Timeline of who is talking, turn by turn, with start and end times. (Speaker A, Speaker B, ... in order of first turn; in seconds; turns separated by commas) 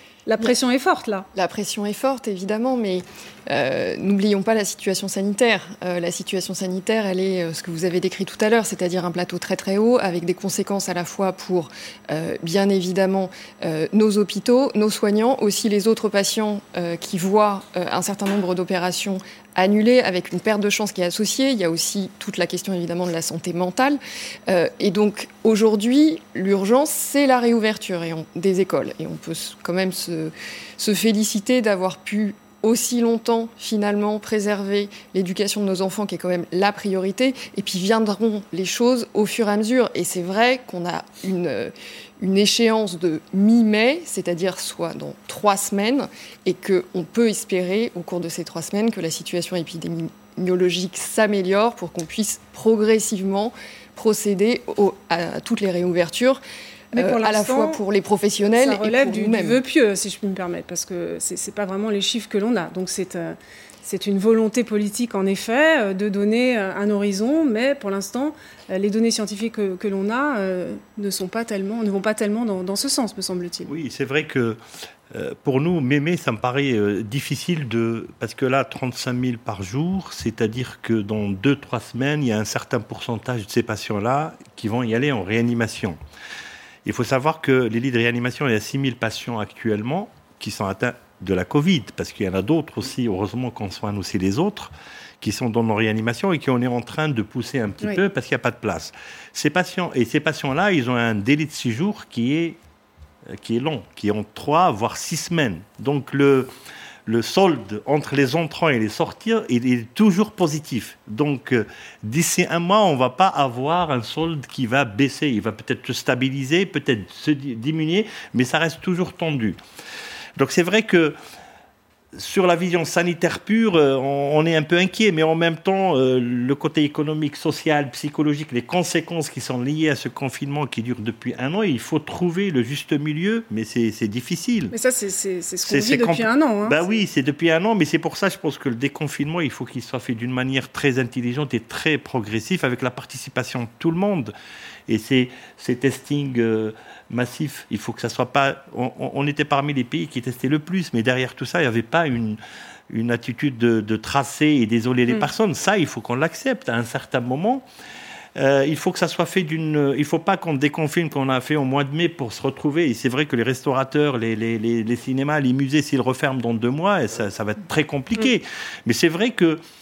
Speaker A: 0.2-1.2, Speaker B: 1.3-56.4, Speaker A: 56.9-57.8, Speaker B: 57.0-59.6, Speaker A: 58.5-73.7, Speaker C: 73.7-74.6, Speaker C: 75.1-86.0, Speaker C: 86.8-102.6, Speaker C: 103.3-106.5, Speaker C: 107.0-119.6, Speaker C: 120.4-121.2, Speaker C: 122.2-134.7, Speaker A: 134.7-136.8, Speaker C: 135.6-144.3, Speaker C: 144.9-152.4, Speaker C: 152.9-157.6, Speaker C: 158.3-169.6